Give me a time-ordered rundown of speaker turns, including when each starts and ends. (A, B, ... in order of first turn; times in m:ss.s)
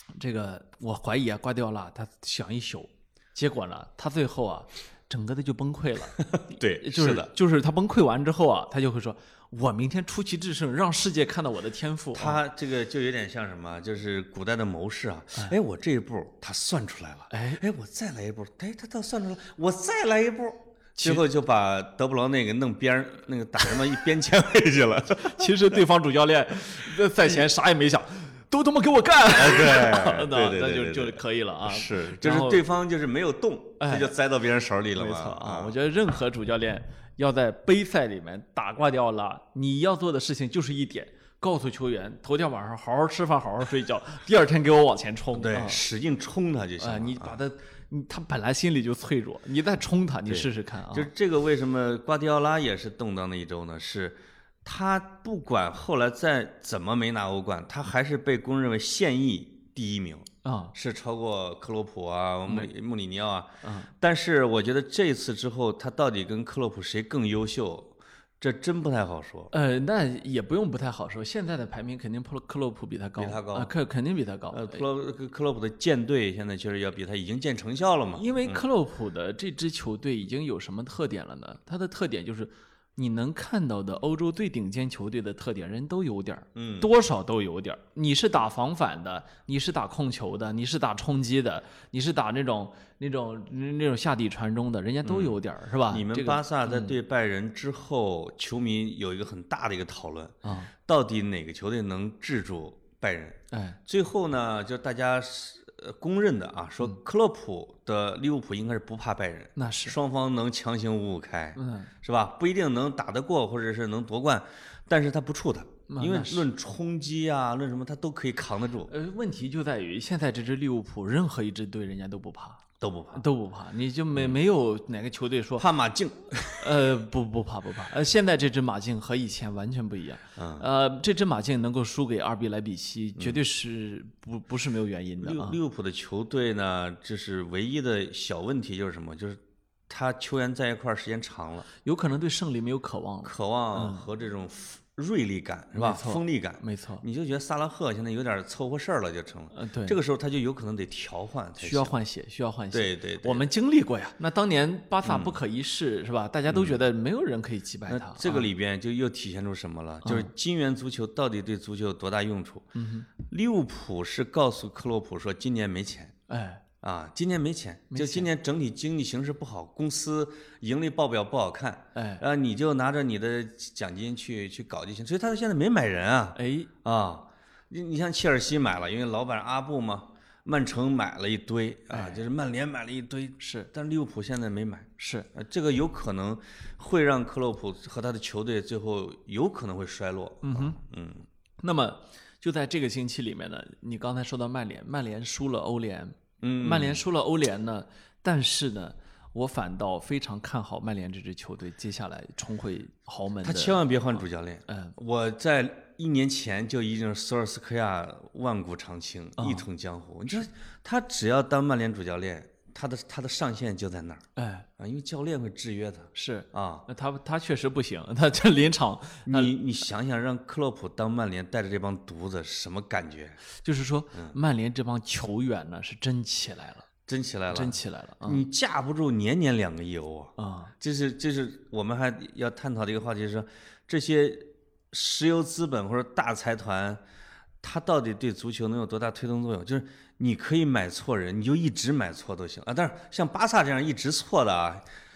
0:00.2-0:12.4 A
0:06.2-0:07.3 B
0:12.1-0:25.5 B
0:17.3-0:17.6 A
0:21.0-0:21.2 A
0:25.2-0:32.6 A
0:29.3-0:35.7 B
0:33.8-0:34.1 A
0:34.9-0:45.8 A
0:45.3-0:47.4 B
0:46.8-0:51.1 A
0:50.3-1:09.5 B
1:00.4-1:00.7 A
1:03.6-1:03.9 A
1:09.5-1:14.8 A
1:13.2-1:13.7 B
1:14.5-1:18.6 B
1:18.2-1:37.0 A
1:26.5-1:26.9 B
1:35.0-1:58.9 B
1:40.4-1:40.7 A
1:43.5-1:43.8 A
1:49.6-1:50.0 A
1:51.5-1:51.9 A
1:55.9-1:56.5 A
1:58.9-2:02.6 A
2:02.8-2:03.2 B
2:03.1-2:05.6 A
2:05.6-2:06.8 B
2:06.6-2:15.6 A
2:10.4-2:10.6 B
2:13.2-2:13.4 B
2:15.2-2:21.7 B
2:21.8-2:24.0 A
2:23.2-2:32.0 B
2:25.7-2:27.0 A
2:29.5-2:30.0 A
2:31.6-2:38.5 A
2:32.7-2:33.4 B
2:35.0-2:35.4 B
2:36.5-2:36.8 B
2:37.9-2:46.1 B
2:42.7-2:43.1 A
2:46.3-2:46.6 A
2:46.8-3:11.3 B
2:47.9-2:48.3 A
2:51.9-2:52.2 A
2:56.4-2:56.7 A
3:01.9-3:02.2 A
3:03.4-3:03.7 A
3:05.0-3:05.3 A
3:10.4-3:10.8 A
3:11.6-3:24.9 A
3:16.4-3:17.0 B
3:23.4-3:34.2 B
3:29.4-3:29.6 A
3:34.4-3:34.6 A
3:34.8-3:36.8 B
3:36.1-3:39.5 A
3:39.2-3:43.4 B
3:43.6-3:46.9 A
3:47.1-3:57.0 B
3:47.5-3:48.4 A
3:50.4-3:50.7 A
3:57.6-4:04.8 B